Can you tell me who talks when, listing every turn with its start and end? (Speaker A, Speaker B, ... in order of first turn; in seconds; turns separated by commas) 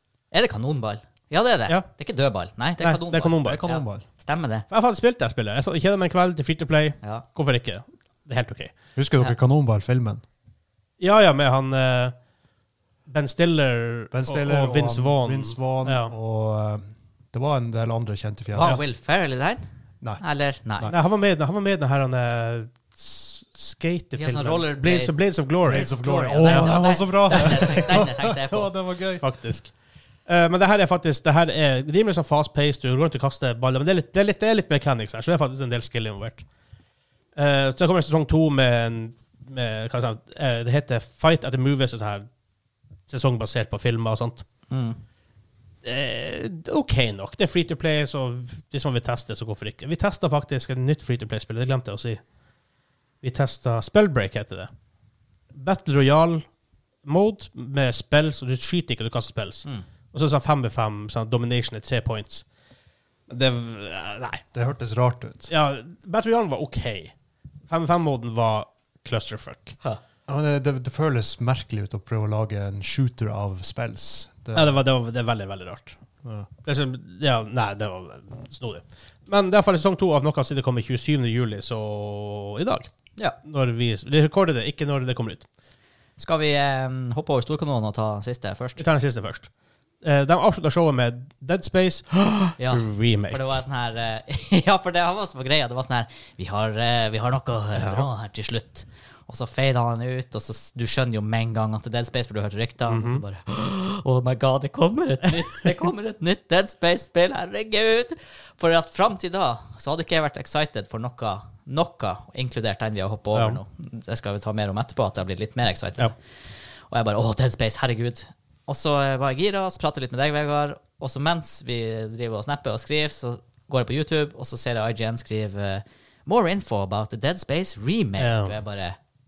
Speaker A: 0.3-4.7, Speaker B: 2.8-3.6, Speaker C: 3.4-4.0, Speaker B: 4.7-8.7, Speaker C: 9.0-10.2, Speaker B: 11.0-12.2, Speaker B: 13.1-16.1, Speaker C: 14.1-18.8, Speaker A: 18.6-19.6, Speaker A: 20.2-20.9, Speaker B: 20.9-27.9, Speaker A: 24.2-25.2, Speaker C: 25.7-29.2, Speaker A: 25.7-28.7, Speaker B: 29.2-29.7, Speaker B: 30.3-36.5, Speaker B: 37.4-42.3, Speaker B: 43.1-44.5, Speaker A: 44.7-45.0, Speaker B: 45.8-52.2, Speaker B: 53.2-54.7, Speaker B: 55.5-56.5, Speaker B: 57.0-62.5, Speaker B: 63.3-64.4, Speaker C: 64.5-65.5, Speaker B: 65.5-67.1, Speaker B: 67.7-69.8, Speaker C: 70.3-74.8, Speaker B: 74.5-76.0, Speaker C: 76.2-76.5, Speaker B: 76.7-82.9, Speaker B: 83.4-85.5, Speaker A: 86.2-88.8, Speaker B: 88.8-89.5, Speaker B: 90.0-93.5, Speaker A: 92.6-116.2, Speaker B: 97.8-98.1, Speaker B: 102.9-103.2, Speaker B: 113.3-113.6, Speaker A: 116.9-129.0, Speaker B: 128.2-128.6